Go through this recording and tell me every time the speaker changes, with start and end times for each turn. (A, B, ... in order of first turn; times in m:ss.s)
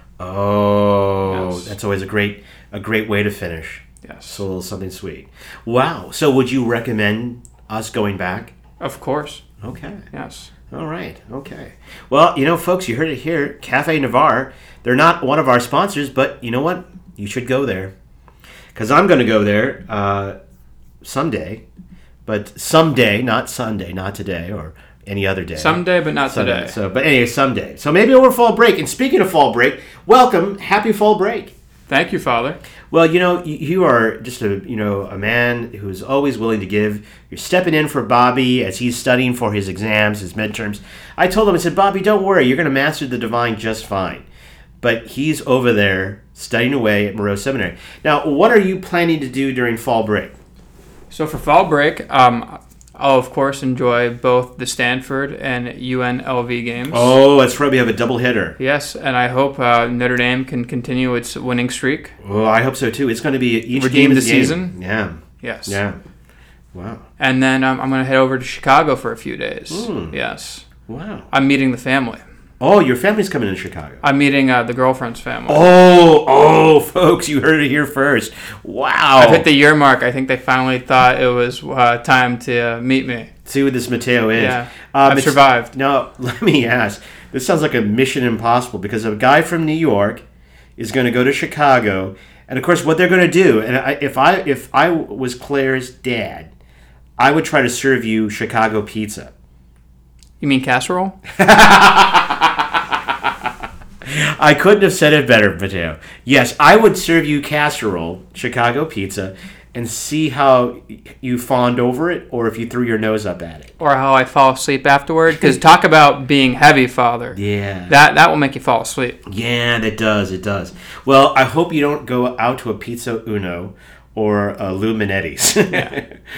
0:00.2-0:08.5 A
0:01.3-0:01.7 B
0:04.0-0:04.4 B
0:08.8-0:09.4 B
0:09.6-0:10.0 A
0:10.1-0:10.5 B
0:10.7-0:17.9 A
0:18.7-0:20.4 A
0:21.0-0:21.6 A
0:22.2-0:31.5 A
0:25.6-0:26.8 B
0:31.9-0:32.6 B
0:32.9-0:44.2 A
0:44.8-0:50.3 A
0:51.1-0:57.1 B
0:56.9-0:58.6 A
0:58.6-1:02.1 B
1:02.2-1:06.0 A
1:03.7-1:04.8 B
1:05.4-1:05.8 B
1:06.7-1:07.0 A
1:07.2-1:10.6 B
1:09.7-1:10.2 A
1:10.9-1:11.3 A
1:11.3-1:12.2 B
1:12.6-1:14.0 A
1:14.0-1:15.6 B
1:15.5-1:19.4 A
1:19.2-1:23.3 B
1:23.4-1:30.2 A
1:24.4-1:25.7 B
1:30.8-1:36.5 A
1:37.2-1:39.3 A
1:40.4-1:41.2 B
1:41.3-1:42.8 A
1:44.0-1:53.7 A
1:53.8-1:59.2 B
1:57.3-1:57.9 A
1:59.2-2:06.1 A
2:05.7-2:06.0 B